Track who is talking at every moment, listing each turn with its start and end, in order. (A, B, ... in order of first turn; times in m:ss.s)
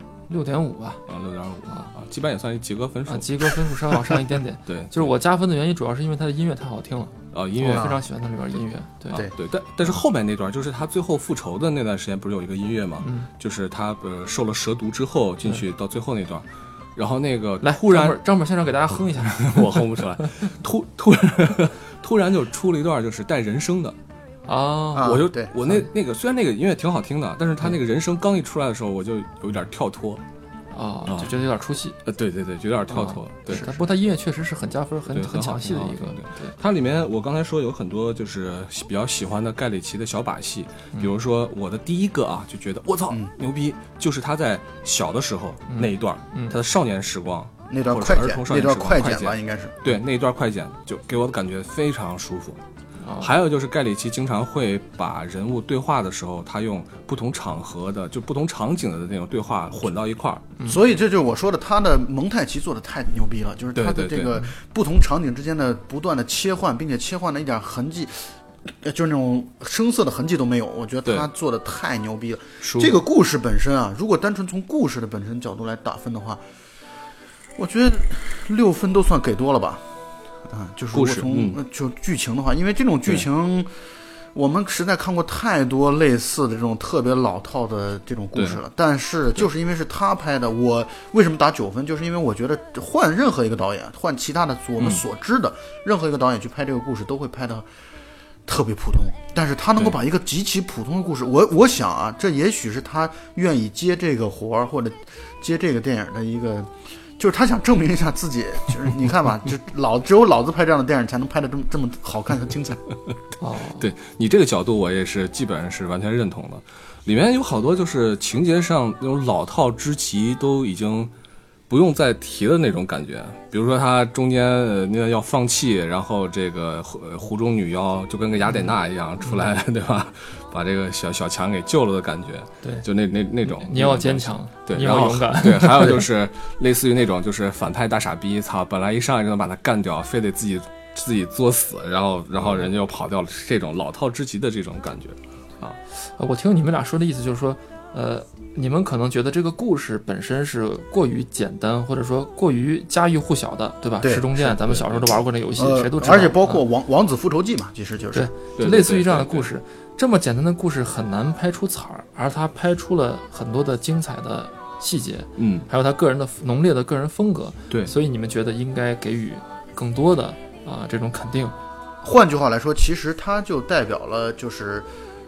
0:00.3-0:01.0 A
0:01.1-0:05.1 B
0:03.1-0:09.2 A
0:07.3-0:07.9 B
0:09.1-0:18.2 B
0:13.0-0:13.3 A
0:17.6-0:20.3 A
0:19.3-0:24.0 B
0:24.5-0:25.9 A
0:24.9-0:25.5 C
0:25.0-0:30.2 B
0:30.7-0:32.0 A
0:31.1-0:31.3 B
0:32.0-0:33.7 B
0:32.9-0:36.5 A
0:33.5-0:33.8 C
0:35.1-0:52.6 B
0:45.7-0:46.6 A
0:47.7-0:49.8 C
0:53.0-0:53.3 A
0:53.2-1:00.5 B
1:00.7-1:16.4 C
1:03.8-1:04.4 B
1:12.6-1:13.0 B
1:17.6-1:19.8 C
1:20.5-1:23.7 C
1:20.9-1:21.6 B
1:24.3-1:37.7 C
1:38.5-1:52.8 C
1:53.4-1:53.9 A
1:53.8-2:01.1 B
2:01.7-2:25.8 B
2:08.5-2:08.7 A
2:13.4-2:16.1 A
2:25.9-2:36.6 A
2:34.0-2:34.6 C
2:34.6-2:35.2 B
2:35.6-2:38.3 C
2:38.1-2:51.6 A
2:38.6-2:39.5 B
2:45.4-2:45.7 B
2:52.0-2:54.9 C